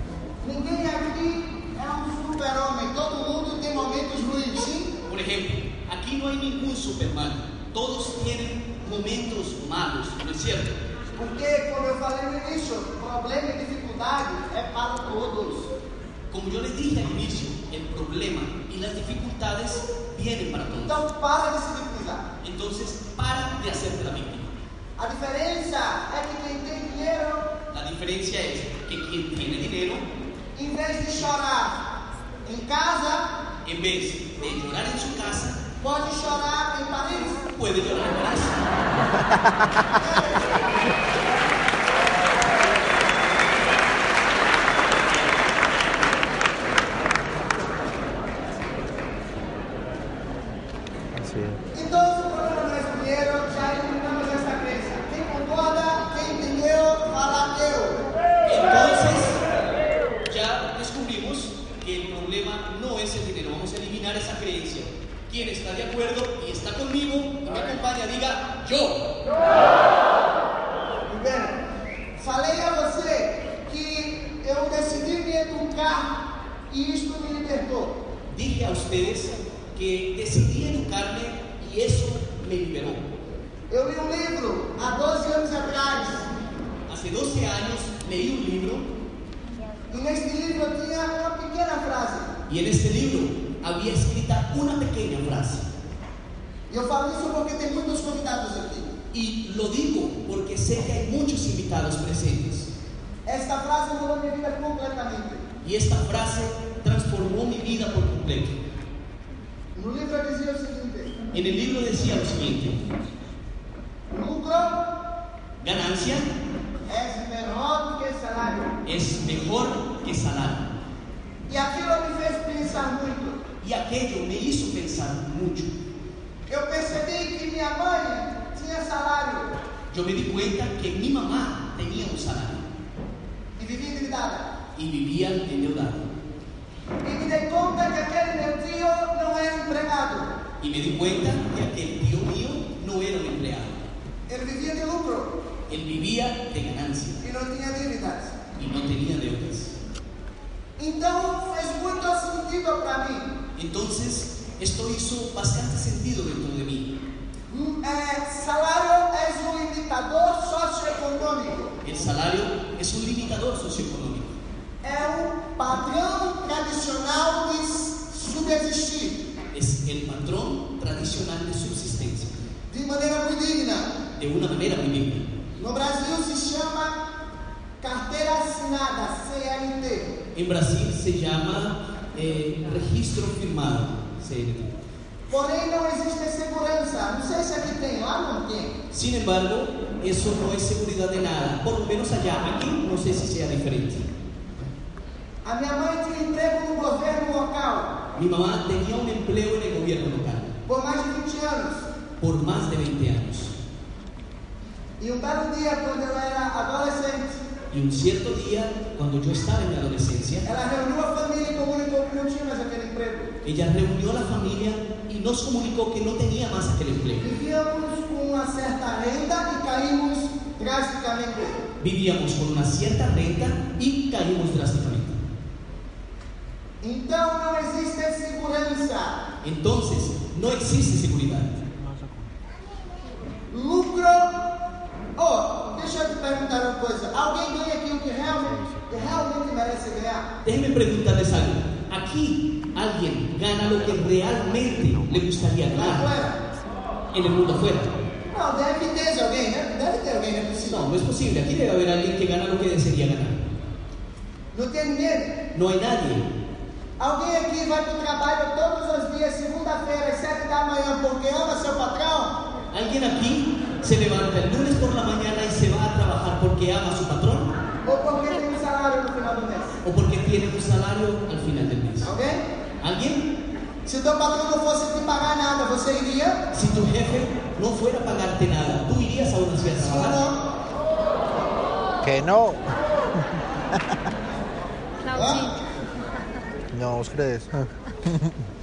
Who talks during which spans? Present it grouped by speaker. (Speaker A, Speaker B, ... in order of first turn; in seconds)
Speaker A: 0.4-5.0, 11.2-15.7, 20.9-22.3, 25.0-27.5, 30.6-31.9, 32.5-33.4, 35.8-37.5, 39.9-40.7, 51.7-58.0, 71.1-71.6, 72.2-78.0, 83.7-86.3, 89.9-92.3, 96.7-99.0, 103.3-105.5, 109.8-111.2, 114.1-115.0, 116.9-118.8, 121.5-123.4, 126.5-129.6, 133.6-134.5, 137.0-140.4, 144.3-145.4, 147.2-148.4, 150.8-153.3, 157.5-161.8, 164.8-169.3, 172.7-174.0, 175.6-177.0, 177.8-180.2, 185.3-188.8, 195.4-198.0, 200.7-201.9, 205.0-207.4, 210.4-213.4, 217.2-221.6, 226.8-229.2, 233.5-234.5, 235.2-240.3, 245.7-246.4, 248.3-250.8, 254.5-255.5, 257.0-262.4, 267.8-269.8, 272.1-272.4, 273.9-276.4, 279.8-280.5, 285.1-285.6
Speaker B: 5.1-10.8, 16.3-21.0, 22.4-24.5, 27.7-30.1, 33.6-35.6, 37.5-38.6, 58.5-59.4, 60.2-69.1, 78.3-83.0, 86.9-88.9, 92.5-95.7, 99.1-102.7, 105.6-108.6, 111.3-112.8, 115.6-116.3, 118.8-120.7, 123.6-125.7, 129.9-132.7, 134.8-136.1, 140.6-143.8, 145.7-147.2, 148.6-149.7, 153.6-156.9, 161.8-164.4, 169.5-172.3, 174.2-175.3, 180.3-184.8, 188.9-194.1, 198.2-200.5, 202.2-203.6, 207.7-210.5, 213.4-217.3, 221.8-225.2, 229.4-231.6, 240.4-246.1, 247.1-247.9, 250.7-253.5, 255.5-256.3, 262.7-267.5, 269.8-272.1, 272.8-273.3, 276.5-280.2
Speaker C: 51.1-51.6, 282.0-284.0, 286.7-288.4